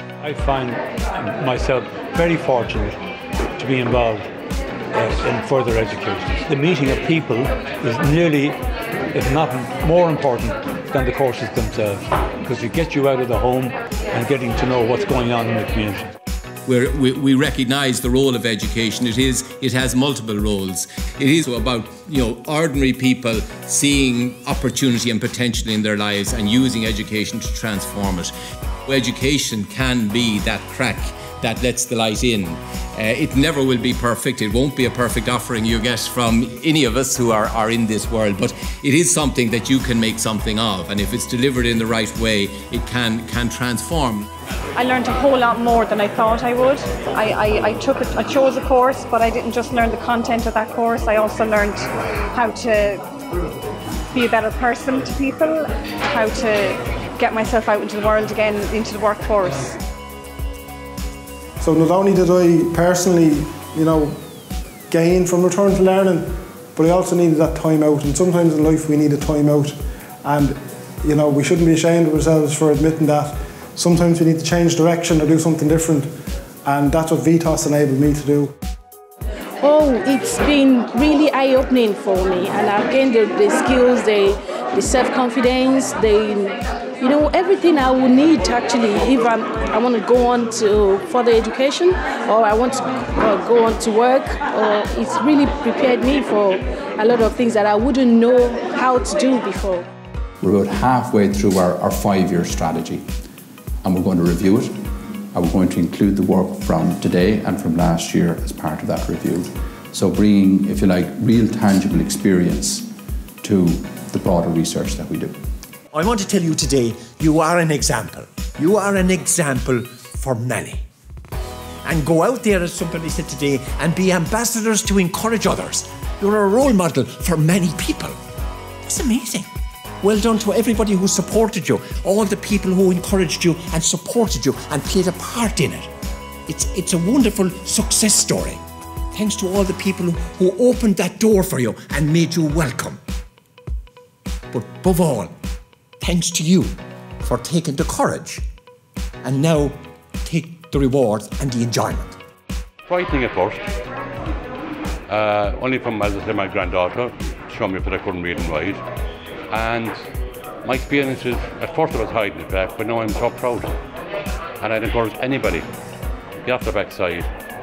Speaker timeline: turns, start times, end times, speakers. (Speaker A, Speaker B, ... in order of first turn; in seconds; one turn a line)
Speaker A: 0.2-3.0
Speaker A: 3.5-4.3
Speaker A: 4.9-8.6
Speaker A: 9.1-16.1
Speaker B: 16.7-28.3
Speaker B: 28.9-44.2
Speaker C: 44.8-53.0
Speaker C: 54.1-59.8
Speaker D: 61.6-64.2
Speaker D: 64.9-76.1
Speaker D: 76.7-78.5
Speaker E: 79.6-99.8
Speaker F: 100.4-103.1
Speaker F: 103.8-112.9
Speaker F: 113.4-115.4
Speaker G: 115.9-120.9
Speaker G: 121.8-128.2
Speaker G: 128.8-129.5
Speaker G: 130.0-135.9
Speaker G: 136.5-138.6
Speaker G: 139.1-143.0
Speaker G: 144.5-145.4
Speaker G: 146.0-148.4
Speaker G: 149.2-152.2
Speaker H: 152.9-153.7
Speaker H: 155.1-158.8
Speaker H: 159.5-160.0
Speaker H: 160.6-163.8
Speaker H: 164.6-165.7
Speaker H: 166.5-167.3